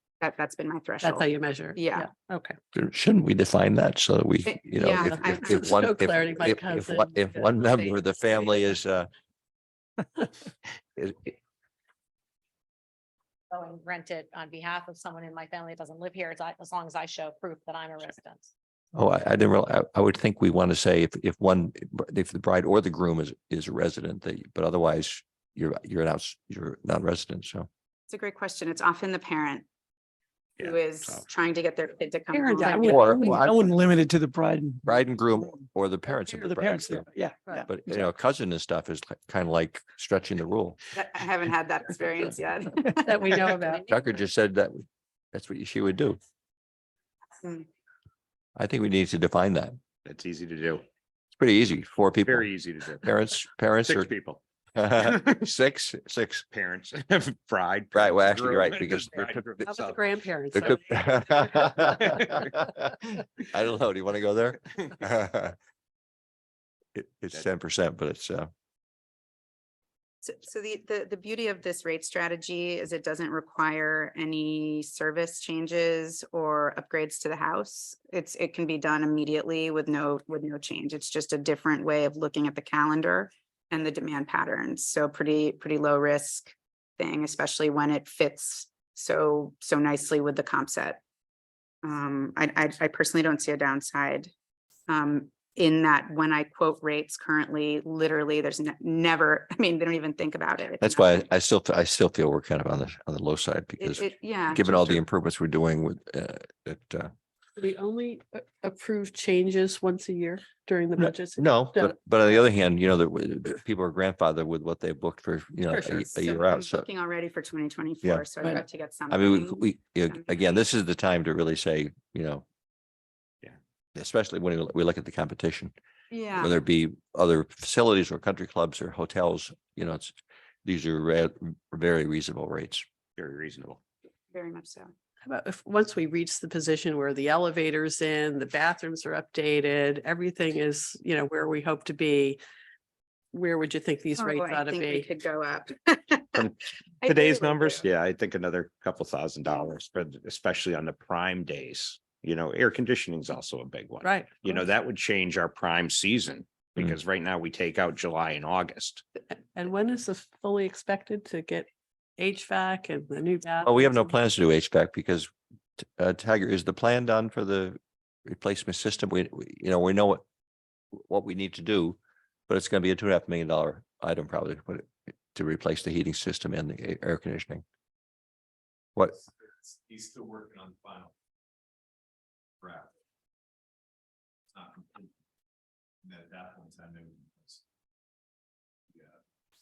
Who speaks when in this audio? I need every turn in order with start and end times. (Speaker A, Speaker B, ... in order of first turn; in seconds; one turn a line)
Speaker A: 0.2-2.1
Speaker B: 1.0-2.5
Speaker C: 2.7-9.1
Speaker A: 4.5-5.8
Speaker B: 4.8-7.5
Speaker C: 11.0-11.3
Speaker D: 13.5-18.5
Speaker C: 18.9-27.7
Speaker A: 28.1-29.7
Speaker E: 30.6-31.2
Speaker A: 30.6-33.1
Speaker B: 32.6-33.3
Speaker F: 32.6-34.9
Speaker C: 32.8-33.7
Speaker C: 34.8-37.0
Speaker F: 36.3-37.6
Speaker C: 37.6-40.8
Speaker A: 40.9-43.4
Speaker B: 43.0-43.9
Speaker C: 43.9-46.2
Speaker C: 48.5-49.8
Speaker E: 50.0-50.8
Speaker C: 51.3-54.1
Speaker E: 52.2-53.1
Speaker E: 53.8-54.4
Speaker C: 54.8-56.5
Speaker E: 55.0-55.3
Speaker E: 56.5-60.0
Speaker C: 57.9-59.4
Speaker B: 59.6-61.8
Speaker C: 60.5-65.5
Speaker E: 61.5-62.6
Speaker C: 66.9-68.5
Speaker A: 70.2-91.0
Speaker A: 91.8-94.3
Speaker A: 94.9-101.3
Speaker C: 100.8-107.1
Speaker A: 103.8-105.0
Speaker B: 107.6-111.9
Speaker C: 111.0-116.9
Speaker B: 115.7-116.0
Speaker A: 116.2-120.3
Speaker C: 119.1-122.5
Speaker C: 123.9-125.7
Speaker A: 126.1-126.5
Speaker C: 126.3-132.8
Speaker E: 133.2-133.8
Speaker A: 134.3-134.9
Speaker B: 135.2-142.4
Speaker B: 143.3-145.1
Speaker A: 144.2-146.4
Speaker E: 146.3-159.0
Speaker A: 147.0-147.8
Speaker B: 154.0-154.6
Speaker B: 159.5-164.1
Speaker C: 163.6-170.2
Speaker C: 170.9-177.6
Speaker G: 179.4-181.1
Speaker G: 182.6-182.9
Speaker G: 184.5-185.1
Speaker G: 186.0-187.6